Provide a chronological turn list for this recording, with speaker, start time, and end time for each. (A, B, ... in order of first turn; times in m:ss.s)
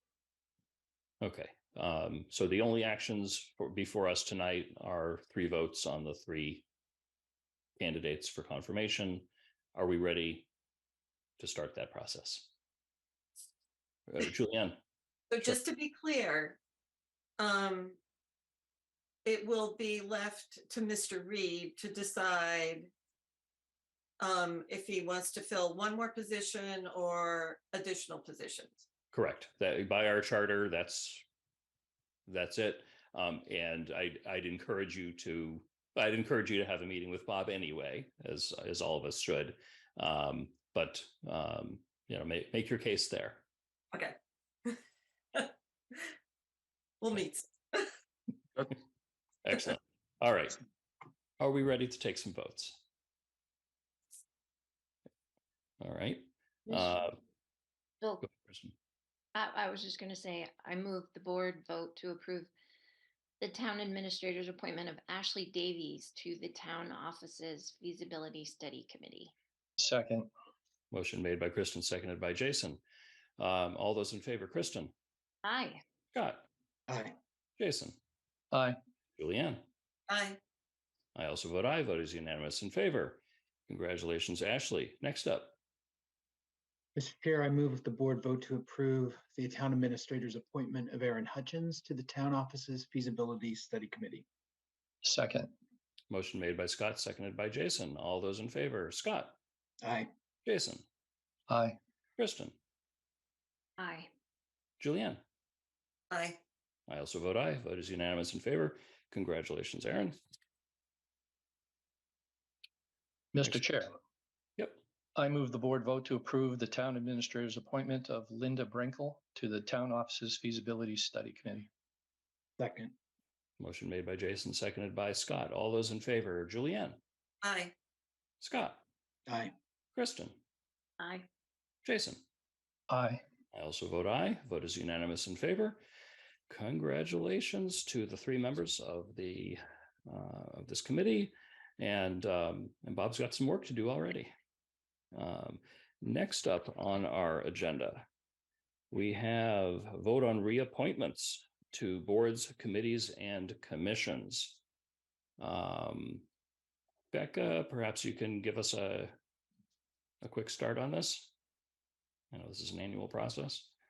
0:01.2-0:06.6 A
0:07.8-0:10.5 A
0:11.4-0:12.5 A
0:14.1-0:14.8 A
0:15.3-0:16.6 B
0:17.4-0:18.0 B
0:19.2-0:22.9 B
0:24.2-0:28.8 B
0:29.1-0:31.2 A
0:32.3-0:43.4 A
0:47.0-0:47.9 B
0:49.4-0:50.6 A
0:51.4-0:52.8 A
0:55.8-0:57.1 A
0:56.7-0:57.0 C
0:58.0-0:58.2 C
0:58.2-0:58.7 A
0:59.3-1:02.5 C
1:03.4-1:09.3 C
1:09.8-1:10.3 D
1:10.9-1:12.8 A
1:13.4-1:14.9 A
1:15.4-1:15.8 C
1:16.1-1:16.5 A
1:16.9-1:17.1 E
1:17.6-1:18.0 A
1:18.5-1:18.8 D
1:19.2-1:19.7 A
1:20.1-1:20.4 B
1:21.1-1:25.5 A
1:27.0-1:34.2 E
1:35.0-1:35.5 D
1:36.1-1:39.4 A
1:39.8-1:40.1 E
1:40.4-1:40.8 A
1:41.5-1:41.8 D
1:42.2-1:42.6 A
1:43.8-1:44.1 C
1:44.8-1:45.2 A
1:46.1-1:46.4 B
1:46.9-1:50.2 A
1:53.3-1:53.9 D
1:55.2-2:01.7 D
2:02.6-2:02.9 E
2:03.6-2:07.0 A
2:07.4-2:07.7 B
2:08.4-2:08.8 A
2:09.3-2:09.5 E
2:10.0-2:10.4 A
2:11.0-2:11.3 C
2:11.8-2:12.2 A
2:12.9-2:13.2 D
2:13.5-2:15.8 A
2:16.5-2:24.3 A
2:25.1-2:28.1 A
2:28.9-2:34.6 A
2:35.4-2:36.2 A
2:37.1-2:39.1 A
2:40.2-2:41.3 A
2:42.3-2:43.7 A